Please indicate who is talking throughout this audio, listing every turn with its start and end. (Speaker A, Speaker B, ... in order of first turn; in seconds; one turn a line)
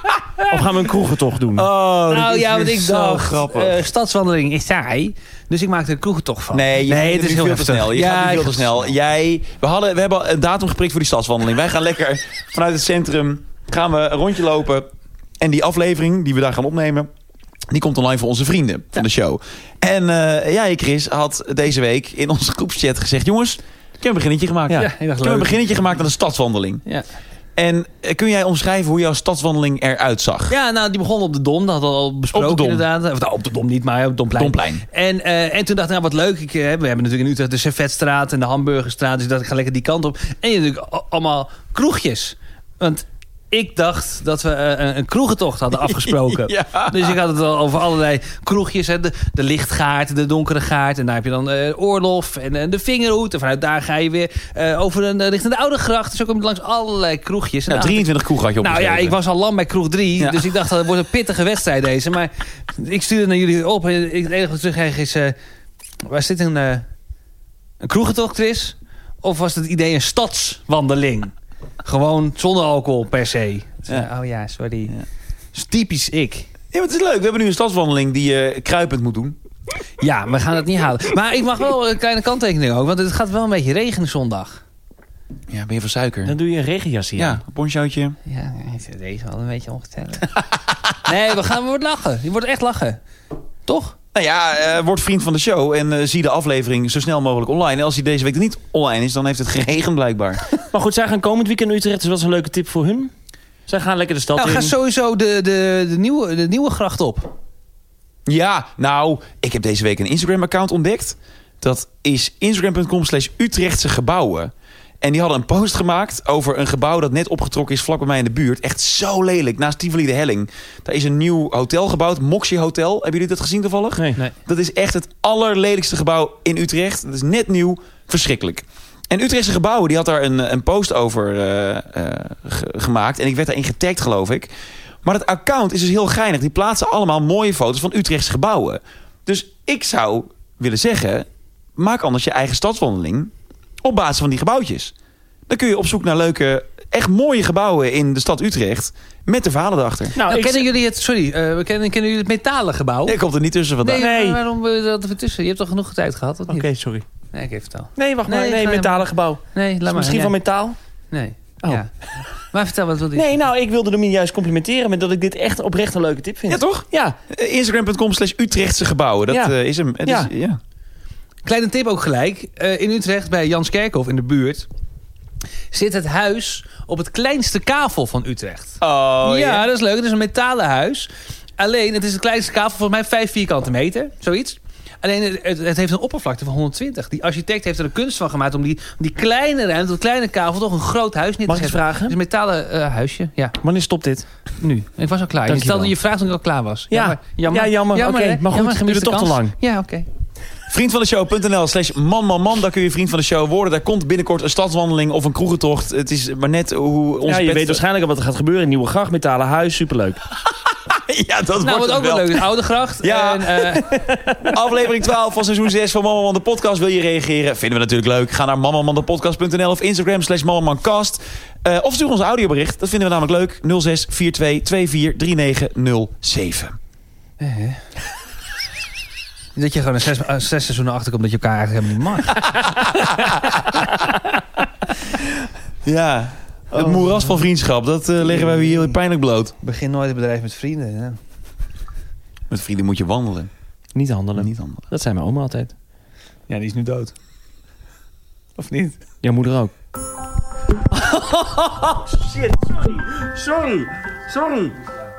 Speaker A: 0.4-1.7
Speaker B: 1.5-3.8
Speaker C: 2.1-8.9
Speaker B: 6.5-14.9
Speaker B: 15.4-17.1
Speaker B: 17.7-26.8
Speaker C: 24.7-25.6
Speaker B: 27.6-30.5
Speaker C: 30.5-65.3
Speaker B: 32.3-32.8
Speaker B: 34.4-34.8
Speaker B: 45.8-47.2
Speaker B: 57.7-59.2
Speaker B: 60.2-60.4
Speaker C: 66.0-66.8
Speaker C: 67.8-71.3
Speaker C: 71.8-74.9
Speaker C: 75.5-76.5
Speaker B: 76.7-79.3
Speaker C: 80.0-84.6
Speaker B: 85.5-86.3
Speaker A: 86.2-87.4
Speaker B: 87.2-88.2
Speaker C: 88.2-93.0
Speaker C: 93.7-93.9
Speaker B: 94.1-100.4
Speaker A: 100.7-103.1
Speaker A: 103.7-104.7
Speaker C: 104.3-107.3
Speaker B: 108.3-134.5
Speaker B: 135.0-143.3
Speaker B: 143.8-144.9
Speaker B: 145.5-150.1
Speaker A: 150.1-150.7
Speaker C: 150.2-153.2
Speaker B: 153.1-154.0
Speaker C: 153.8-156.7
Speaker A: 153.9-154.4
Speaker A: 156.5-157.0
Speaker C: 157.3-160.4
Speaker A: 158.0-160.8
Speaker C: 161.1-161.9
Speaker C: 162.5-163.3
Speaker A: 163.1-167.2
Speaker B: 166.5-170.6
Speaker A: 169.3-169.5
Speaker A: 170.0-170.3
Speaker C: 171.4-174.7
Speaker C: 175.7-181.1
Speaker B: 178.8-179.7
Speaker C: 181.6-193.6
Speaker A: 191.4-192.2
Speaker A: 193.6-194.2
Speaker C: 194.6-200.1
Speaker A: 195.4-195.9
Speaker A: 196.9-199.6
Speaker B: 200.7-207.8
Speaker A: 207.2-210.2
Speaker B: 210.9-212.4
Speaker C: 211.6-213.9
Speaker B: 213.0-213.8
Speaker A: 213.9-214.5
Speaker B: 214.5-226.8
Speaker C: 227.4-227.8
Speaker C: 229.6-232.5
Speaker B: 235.8-239.5
Speaker C: 236.8-237.3
Speaker C: 238.3-238.9
Speaker C: 239.6-241.2
Speaker B: 242.5-243.5
Speaker A: 243.9-245.7
Speaker B: 244.4-244.8
Speaker C: 246.5-247.1
Speaker C: 248.6-249.0
Speaker A: 249.2-249.7
Speaker A: 250.9-254.8